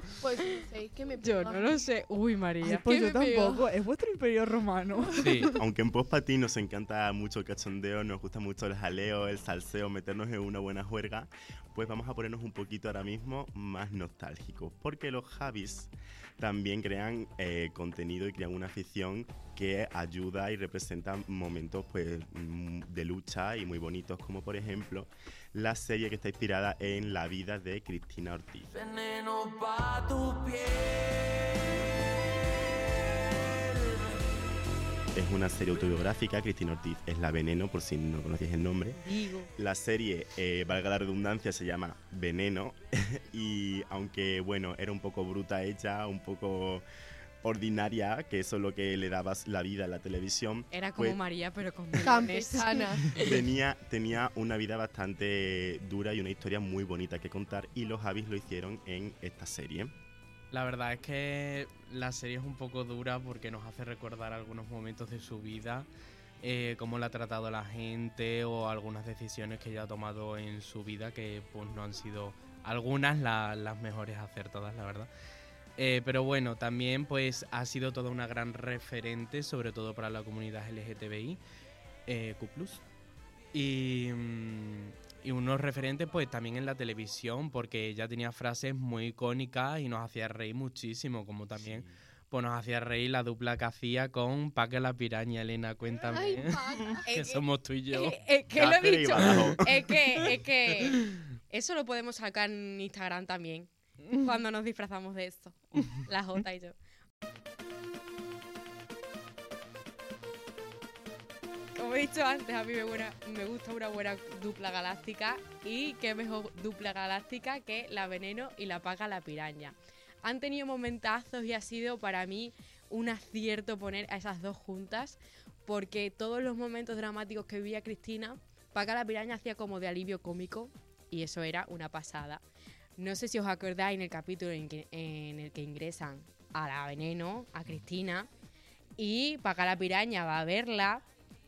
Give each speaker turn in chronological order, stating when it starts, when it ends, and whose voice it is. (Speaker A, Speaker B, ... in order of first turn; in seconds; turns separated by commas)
Speaker A: 0.2-1.9, Speaker B: 1.2-2.9, Speaker C: 2.6-5.5, Speaker A: 2.9-3.6, Speaker D: 5.2-5.6, Speaker E: 5.6-28.7, Speaker F: 28.7-31.5, Speaker E: 35.1-39.0, Speaker B: 39.0-39.5, Speaker E: 39.6-46.9, Speaker E: 47.4-51.2, Speaker B: 50.7-53.3, Speaker A: 52.0-53.2, Speaker E: 53.1-59.9, Speaker D: 60.5-65.9, Speaker D: 66.4-75.1, Speaker D: 75.8-81.4, Speaker D: 82.1-82.8, Speaker D: 83.5-98.2, Speaker E: 91.6-91.9, Speaker A: 96.0-97.0, Speaker B: 97.0-106.8, Speaker E: 98.5-99.9, Speaker D: 99.2-99.5, Speaker B: 111.8-132.4, Speaker B: 133.0-138.3, Speaker B: 139.0-141.0